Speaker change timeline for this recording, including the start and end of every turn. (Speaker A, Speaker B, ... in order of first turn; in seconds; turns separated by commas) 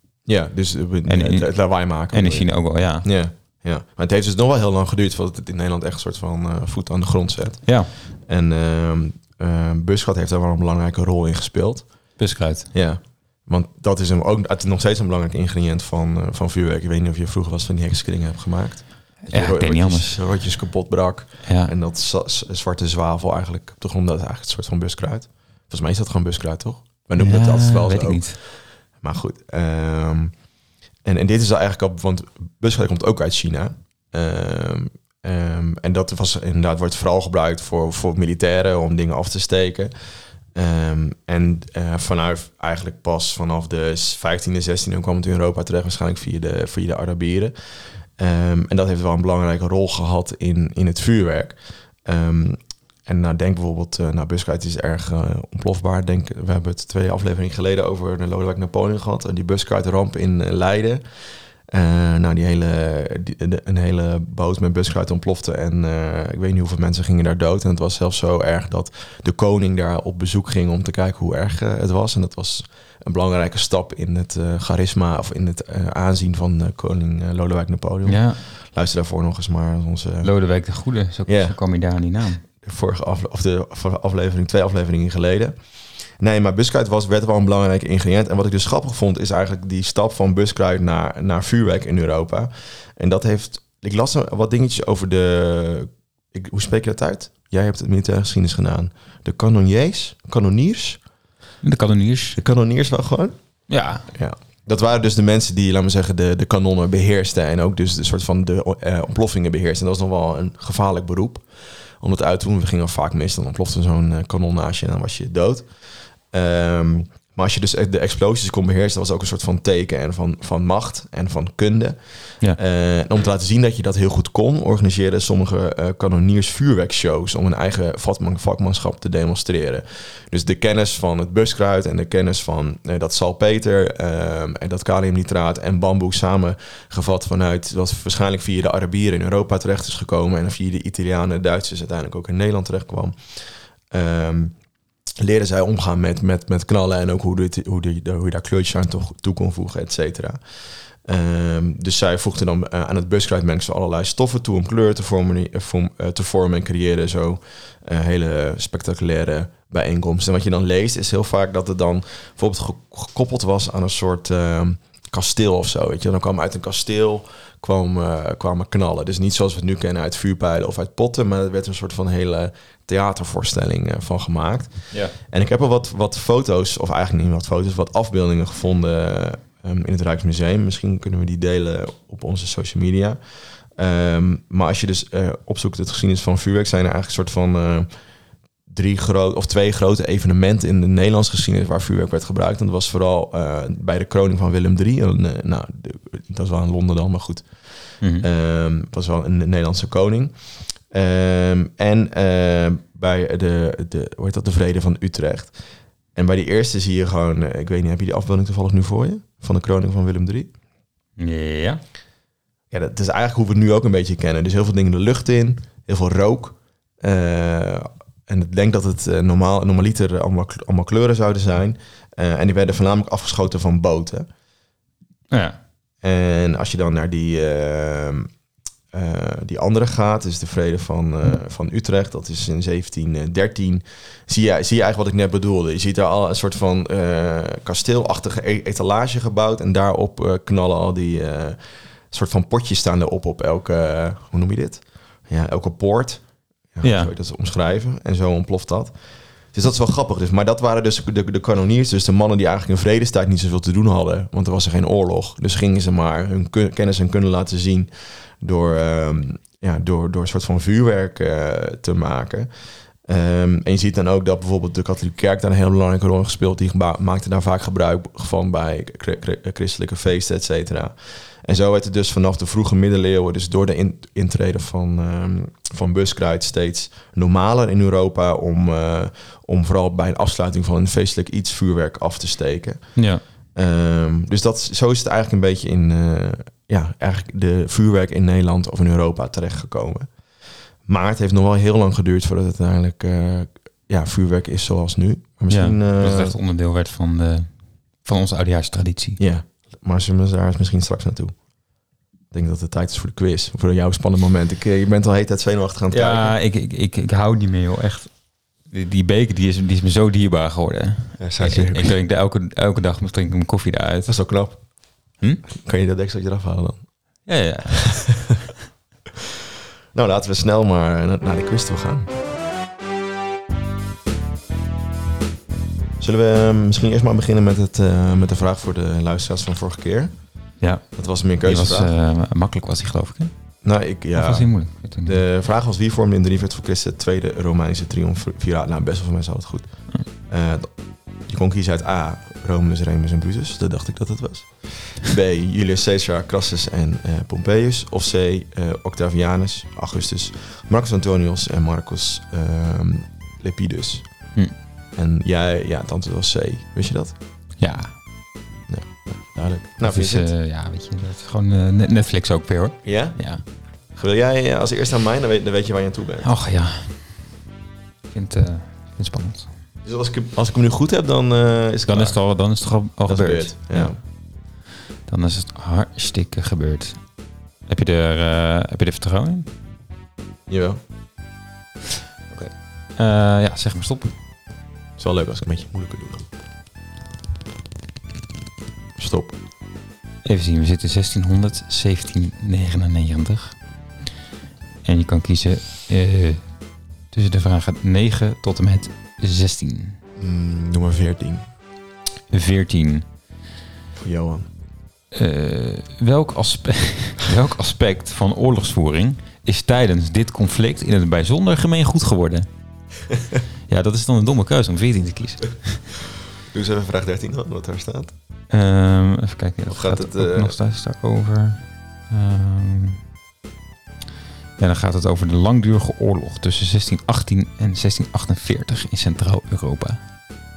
Speaker A: 0.3-12.2, Speaker B: 1.1-3.1, Speaker B: 7.7-7.9, Speaker B: 12.2-12.7, Speaker A: 12.7-30.3, Speaker B: 19.3-20.2, Speaker B: 21.4-21.7, Speaker B: 27.2-28.4, Speaker A: 31.0-80.3, Speaker B: 78.1-78.4, Speaker B: 80.2-82.4, Speaker A: 81.3-81.6, Speaker A: 82.6-101.0, Speaker B: 101.6-102.4, Speaker A: 102.3-144.6, Speaker B: 103.7-104.1, Speaker A: 145.2-188.1, Speaker A: 188.7-205.6, Speaker B: 198.0-198.3, Speaker A: 206.2-210.5, Speaker B: 211.2-211.8, Speaker A: 212.7-224.3, Speaker B: 225.3-225.6, Speaker A: 226.0-228.3, Speaker A: 228.9-296.4, Speaker B: 246.8-247.1, Speaker B: 282.9-283.2, Speaker B: 295.5-299.2, Speaker A: 299.2-301.5, Speaker A: 302.3-306.4, Speaker B: 305.9-314.2, Speaker A: 311.2-312.0, Speaker A: 314.1-317.3, Speaker B: 317.2-318.3, Speaker A: 319.9-322.1, Speaker A: 326.0-331.9, Speaker B: 330.6-333.3, Speaker A: 333.6-357.2, Speaker B: 334.1-335.2, Speaker B: 357.6-358.0, Speaker A: 358.7-360.3, Speaker B: 359.8-363.4, Speaker A: 362.8-366.3, Speaker B: 366.2-367.4, Speaker B: 368.1-369.5, Speaker A: 369.8-374.0, Speaker B: 371.9-379.5, Speaker A: 380.5-380.8, Speaker B: 382.3-384.2, Speaker A: 385.0-386.3, Speaker A: 389.0-389.3, Speaker B: 390.2-393.6, Speaker B: 394.8-400.0, Speaker A: 400.2-401.5, Speaker B: 402.3-403.1, Speaker A: 404.0-404.5, Speaker B: 405.1-412.6, Speaker B: 413.7-415.9, Speaker A: 416.5-418.1, Speaker B: 418.5-423.0, Speaker A: 419.7-420.6, Speaker B: 424.6-430.0